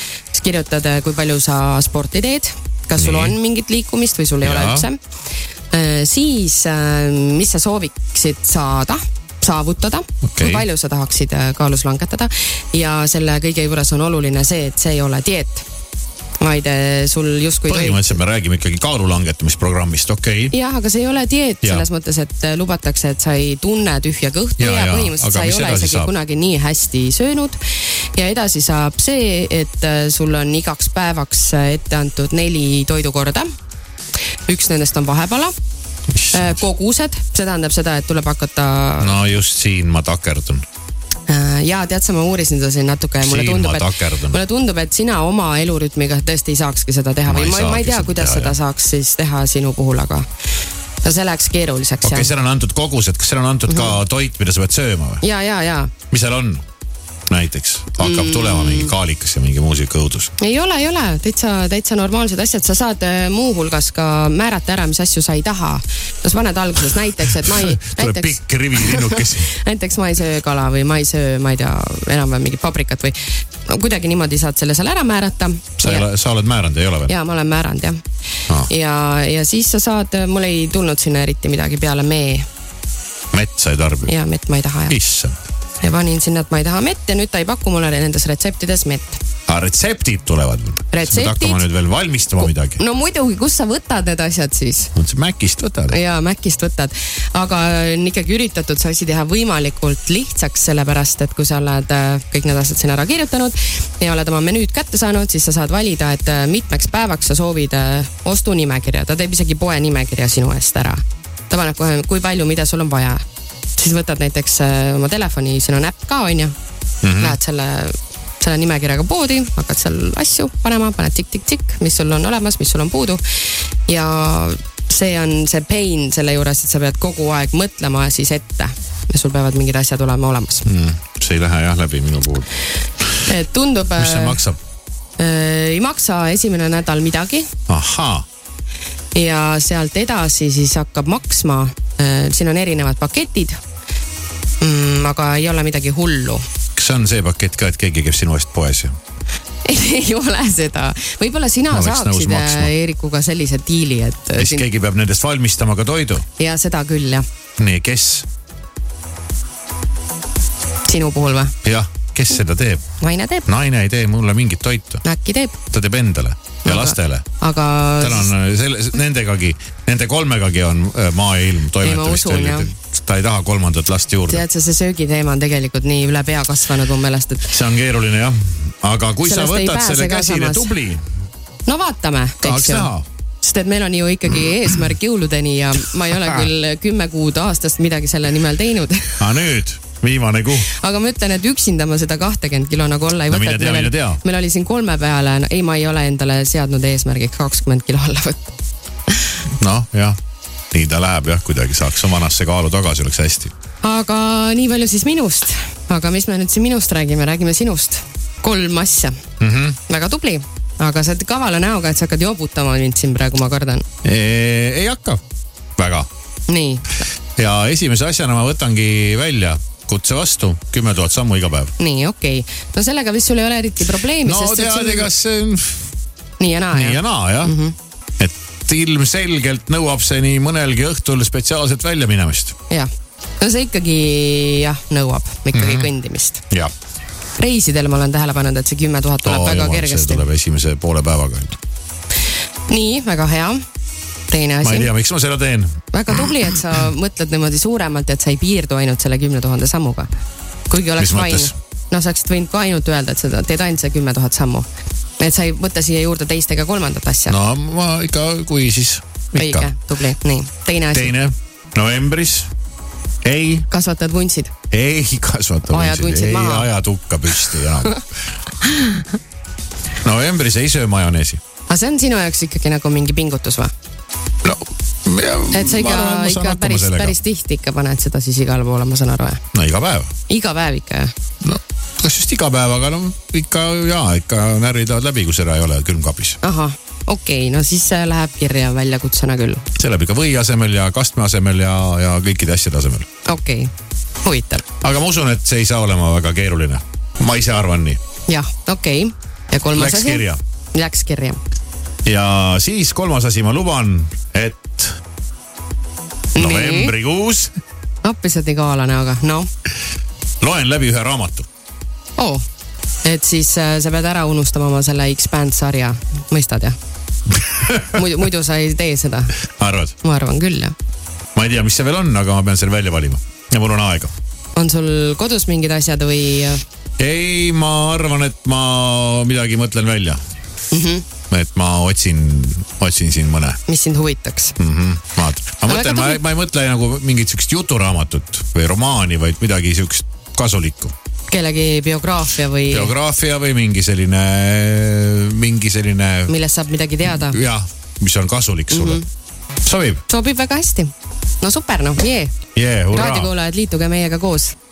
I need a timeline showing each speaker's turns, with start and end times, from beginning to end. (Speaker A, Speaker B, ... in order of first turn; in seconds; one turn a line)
Speaker A: 0.3-5.0
Speaker B: 3.0-3.4
Speaker B: 4.4-4.9
Speaker A: 5.7-15.7
Speaker B: 10.3-10.7
Speaker A: 16.4-18.2
Speaker B: 17.7-20.6
Speaker A: 20.5-33.5
Speaker B: 24.6-26.1
Speaker A: 34.5-35.5
Speaker B: 36.1-36.6
Speaker A: 36.3-39.2
Speaker B: 39.0-40.6
Speaker A: 41.3-50.3
Speaker B: 43.2-44.4
Speaker B: 47.3-48.6
Speaker A: 51.0-52.3
Speaker B: 52.0-55.2
Speaker A: 53.7-54.0
Speaker A: 55.2-55.9
Speaker B: 56.1-56.6
Speaker B: 57.3-60.3
Speaker A: 58.0-58.9
Speaker A: 60.4-76.1
Speaker B: 67.5-69.5
Speaker B: 75.8-77.1
Speaker A: 77.1-78.0
Speaker A: 78.7-82.5
Speaker B: 83.3-84.1
Speaker A: 84.1-85.0
Speaker B: 84.9-85.5
Speaker A: 85.8-89.2
Speaker B: 89.5-92.8
Speaker A: 90.9-91.7
Speaker A: 92.4-94.9
Speaker B: 95.0-96.0
Speaker A: 95.9-113.2
Speaker A: 113.8-116.5
Speaker B: 117.0-117.4
Speaker A: 117.2-130.7
Speaker B: 130.7-132.5
Speaker A: 133.2-134.4
Speaker B: 134.0-134.6
Speaker A: 135.2-137.5
Speaker B: 137.7-138.2
Speaker A: 139.1-143.6
Speaker A: 144.6-146.4
Speaker B: 146.8-149.0
Speaker A: 149.7-154.7
Speaker B: 151.7-152.7
Speaker B: 154.4-156.2
Speaker A: 156.4-157.2
Speaker B: 157.6-158.3
Speaker A: 160.9-161.5
Speaker B: 161.6-162.8
Speaker A: 163.0-163.5
Speaker B: 163.5-165.0
Speaker A: 165.0-165.6
Speaker B: 165.7-167.2
Speaker A: 166.7-168.3
Speaker B: 168.0-174.4
Speaker A: 171.8-172.7
Speaker A: 174.3-177.6
Speaker B: 177.5-181.0
Speaker A: 179.2-180.8
Speaker A: 181.7-189.4
Speaker B: 182.4-183.1
Speaker B: 189.2-190.7
Speaker A: 190.7-198.5
Speaker B: 193.3-194.2
Speaker B: 199.6-200.2
Speaker B: 200.7-203.5
Speaker A: 203.8-209.2
Speaker B: 209.4-209.8
Speaker A: 209.9-213.8
Speaker B: 214.0-215.2
Speaker B: 215.8-216.1
Speaker A: 216.5-217.0
Speaker B: 217.4-221.7
Speaker A: 221.8-225.1
Speaker B: 224.2-225.8
Speaker A: 226.4-227.8
Speaker B: 226.7-227.6
Speaker B: 228.2-232.6
Speaker A: 232.7-236.4
Speaker B: 235.5-235.9
Speaker A: 237.4-240.2
Speaker B: 239.2-241.6
Speaker A: 242.7-243.6
Speaker A: 244.3-244.9
Speaker B: 244.6-245.8
Speaker A: 245.9-250.1
Speaker A: 250.7-254.7
Speaker B: 251.0-251.5
Speaker A: 255.2-257.4
Speaker B: 257.3-259.7
Speaker A: 259.4-261.1
Speaker B: 260.9-262.5
Speaker B: 263.2-263.7
Speaker A: 263.7-264.5
Speaker B: 264.7-268.0
Speaker A: 265.7-266.7
Speaker A: 267.3-268.0
Speaker A: 268.6-269.1
Speaker B: 270.0-271.4
Speaker A: 271.7-273.7
Speaker B: 274.4-277.1
Speaker A: 275.5-279.4
Speaker B: 279.5-280.1
Speaker A: 280.3-281.1
Speaker B: 281.4-286.4
Speaker A: 286.4-289.7
Speaker B: 289.8-293.1
Speaker A: 293.3-293.7
Speaker A: 294.2-294.7
Speaker B: 294.8-298.0
Speaker A: 298.3-301.4
Speaker B: 299.7-300.4
Speaker B: 302.1-305.0
Speaker A: 306.4-307.0
Speaker B: 306.4-307.5
Speaker A: 308.0-309.5
Speaker B: 310.4-311.5
Speaker A: 312.2-312.4
Speaker A: 313.0-316.8
Speaker B: 317.5-318.0
Speaker A: 317.9-319.4
Speaker B: 319.6-319.9
Speaker A: 320.0-320.8
Speaker B: 321.4-324.1
Speaker A: 324.6-326.6
Speaker B: 327.0-330.2
Speaker A: 330.7-331.1
Speaker B: 331.3-333.6
Speaker A: 333.7-334.6
Speaker B: 334.6-340.9
Speaker A: 335.6-336.2
Speaker A: 341.3-342.9
Speaker B: 342.7-346.3
Speaker A: 346.3-347.4
Speaker B: 347.2-349.0
Speaker A: 348.7-349.1
Speaker B: 349.6-350.0
Speaker A: 350.1-352.4
Speaker B: 352.6-353.3
Speaker A: 352.9-354.6